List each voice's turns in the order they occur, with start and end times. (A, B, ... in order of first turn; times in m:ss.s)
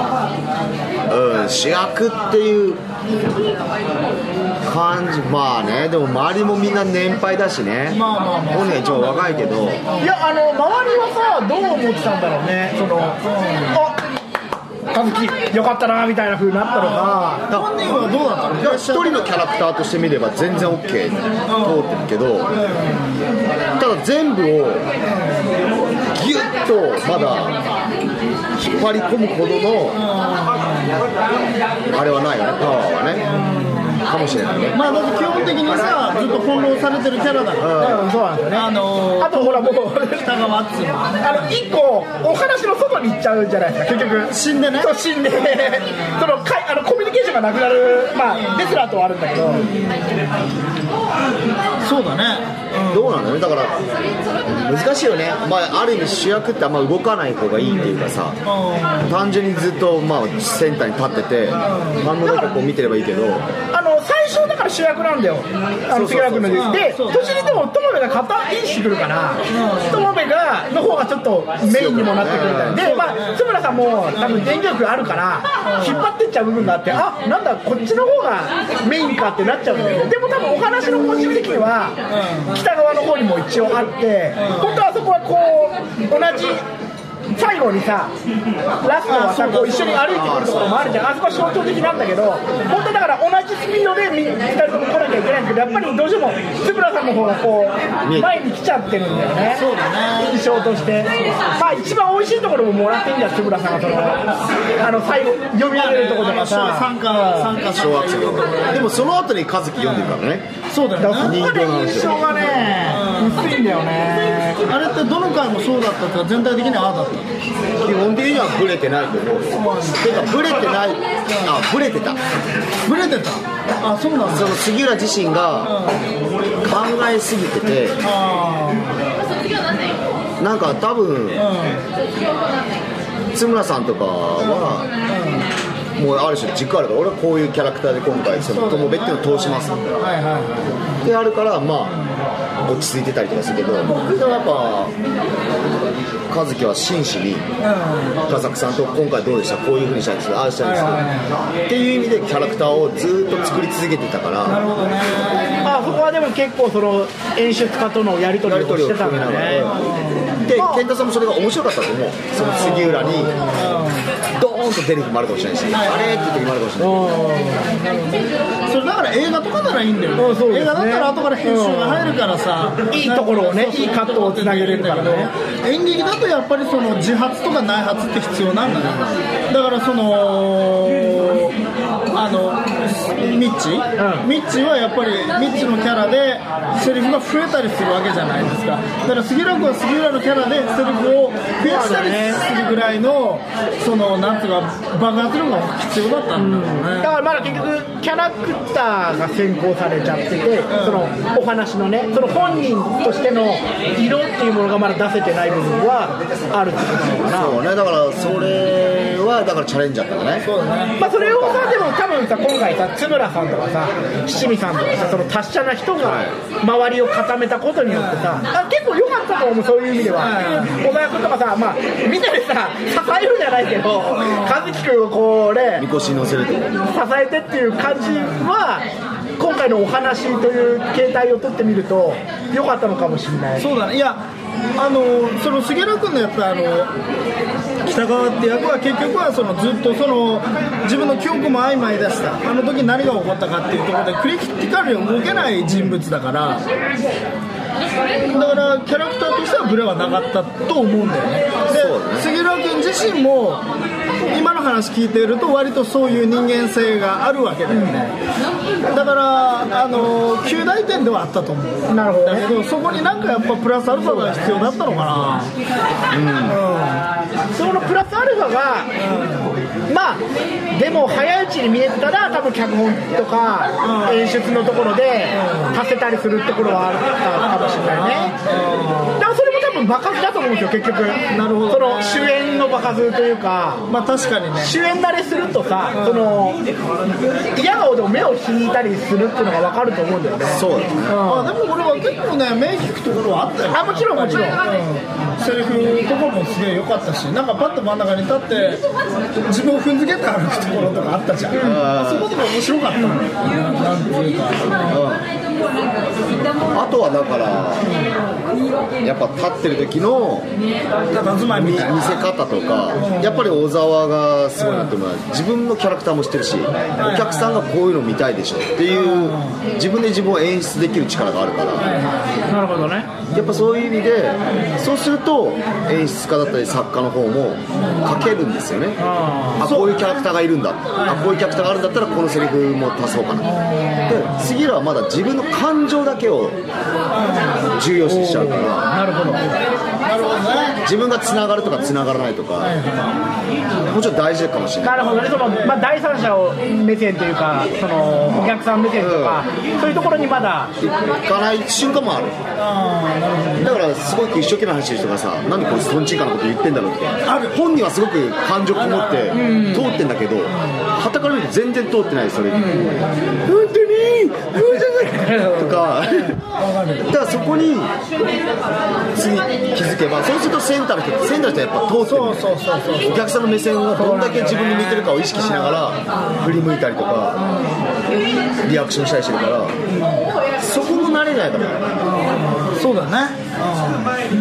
0:01.1-0:02.8 A
0:04.6-0:09.8 A
0:07.9-0:10.1 B
0:10.0-0:14.0 C
0:13.2-0:13.8 B
0:14.9-0:17.4 C
0:16.8-0:19.2 B
0:17.5-0:17.8 A
0:18.6-0:22.5 A
0:21.5-0:21.9 B
0:22.5-0:23.2 B
0:23.8-0:24.9 A
0:25.0-0:25.5 B
0:26.1-0:27.6 A
0:28.6-0:30.0 A
0:29.9-0:31.0 B
0:31.9-0:33.3 A
0:33.2-0:34.0 B
0:34.0-0:34.8 A
0:34.7-0:38.0 B
0:37.6-0:38.0 A
0:37.8-0:40.3 C
0:38.5-0:41.5 B
0:41.2-0:44.1 C
0:43.8-0:44.9 B
0:44.8-0:49.7 C
0:45.7-0:46.3 B
0:48.3-0:48.8 B
0:49.4-0:50.3 B
0:51.8-0:53.2 B
0:52.9-0:53.8 A
0:54.4-0:58.4 A
0:58.4-0:59.2 B
0:59.0-1:03.5 A
1:01.6-1:02.0 B
1:02.2-1:02.6 C
1:03.7-1:22.0 C
1:05.9-1:06.8 A
1:06.5-1:07.7 B
1:09.5-1:10.1 B
1:11.7-1:12.8 A
1:12.7-1:13.4 B
1:14.2-1:14.4 B
1:15.6-1:16.0 B
1:19.7-1:20.1 B
1:22.1-1:22.6 B
1:22.5-1:26.6 C
1:24.4-1:24.8 B
1:27.3-1:28.1 C
1:28.8-1:44.3 C
1:29.1-1:30.2 B
1:30.1-1:32.1 A
1:38.0-1:38.4 A
1:39.4-1:41.6 B
1:44.8-1:46.9 C
1:45.7-1:49.0 B
1:47.7-1:50.5 A
1:50.7-1:53.6 B
1:51.0-1:54.6 C
1:51.2-1:52.2 A
1:54.7-1:57.3 B
1:57.8-2:02.2 A
1:59.6-2:00.1 B
2:02.9-2:04.6 B
2:04.3-2:05.7 A
2:05.6-2:06.0 B
2:06.6-2:08.0 A
2:08.0-2:09.0 B
2:10.4-2:11.4 A
2:11.4-2:11.8 B
2:13.3-2:14.9 A
2:14.4-2:15.5 B
2:16.0-2:19.8 A
2:18.5-2:20.7 B
2:21.0-2:22.0 A
2:22.6-2:24.9 A
2:26.3-2:27.4 A
2:27.6-2:28.3 B
2:28.2-2:34.6 A
2:30.6-2:31.3 B
2:34.4-2:36.0 B
2:35.6-2:39.7 C
2:38.4-2:39.8 A
2:39.6-2:40.4 B
2:40.4-2:43.5 A
2:40.5-2:40.8 C
2:42.4-2:44.1 B
2:44.4-2:47.1 A
2:45.7-2:46.4 B
2:46.8-2:47.6 C
2:47.4-3:01.6 B
2:50.2-2:52.2 C
2:52.9-2:55.3 C
3:02.1-3:17.2 B
3:04.0-3:04.3 C
3:11.6-3:12.4 C
3:16.4-3:27.6 C
3:20.7-3:21.1 B
3:27.2-3:30.5 A
3:30.4-3:31.0 B
3:31.0-3:45.9 C
3:31.0-3:31.8 A
3:36.0-3:36.3 A
3:37.9-3:38.4 B
3:40.2-3:40.8 B
3:44.0-3:44.8 B
3:45.8-3:46.8 A
3:46.8-3:48.8 C
3:48.2-3:48.4 B
3:49.4-3:53.7 C
3:53.6-3:54.2 B
3:54.8-3:56.9 B
3:57.8-4:06.6 B
4:08.3-4:13.6 B
4:11.7-4:12.3 A
4:14.3-4:18.1 B
4:17.7-4:18.0 C
4:18.9-4:25.5 B
4:21.9-4:22.5 C
4:24.0-4:25.1 C
4:26.1-4:26.6 A
4:26.5-4:27.0 B
4:27.5-4:28.9 C
4:29.0-4:29.5 B
4:29.9-4:38.4 C
4:33.8-4:34.5 B
4:35.3-4:35.8 B
4:37.4-4:39.3 B
4:39.2-4:43.8 C
4:41.3-4:42.4 B
4:43.9-4:44.7 B
4:44.6-4:46.6 C
4:45.9-4:46.4 B
4:47.5-4:51.5 C
4:50.5-4:51.2 A
4:51.2-4:58.8 B
4:53.7-4:54.6 C
4:59.4-5:05.0 B
5:01.5-5:02.3 A
5:01.5-5:01.8 C
5:04.9-5:05.3 A
5:06.7-5:08.0 A
5:09.0-5:10.5 A
5:11.1-5:12.1 B
5:11.5-5:22.0 A
5:13.0-5:13.5 B
5:14.6-5:14.9 B
5:17.0-5:17.6 B
5:18.9-5:19.6 B
5:21.8-5:22.2 B
5:22.5-5:23.1 C
5:23.3-5:29.0 A
5:27.8-5:28.1 B
5:29.0-5:29.7 C
5:29.6-5:33.5 A
5:29.6-5:30.1 B
5:31.0-5:31.6 B
5:33.4-5:34.5 B
5:34.0-5:36.6 A
5:37.1-5:37.8 B
5:37.7-5:38.9 A
5:38.0-5:39.5 C
5:40.0-5:40.8 B
5:40.8-5:42.8 A
5:42.6-5:43.1 B
5:43.9-5:45.1 A
5:44.8-5:50.7 C
5:45.3-5:45.9 B
5:49.0-5:49.4 A
5:50.8-5:52.4 A
5:52.6-5:53.7 B
5:53.6-6:03.0 A
5:57.2-5:57.6 B
5:58.7-5:59.6 B
5:59.3-5:59.9 C
6:00.5-6:00.8 B
6:02.5-6:02.9 C
6:03.4-6:05.9 C
6:05.5-6:06.4 A
6:06.1-6:07.6 B
6:07.1-6:07.9 A
6:09.1-6:17.4 A
6:12.0-6:13.2 B
6:14.0-6:15.1 C
6:15.3-6:16.6 B
6:17.4-6:17.8 B
6:18.6-6:19.7 A
6:19.9-6:20.2 B
6:20.6-6:21.9 A
6:22.0-6:24.1 B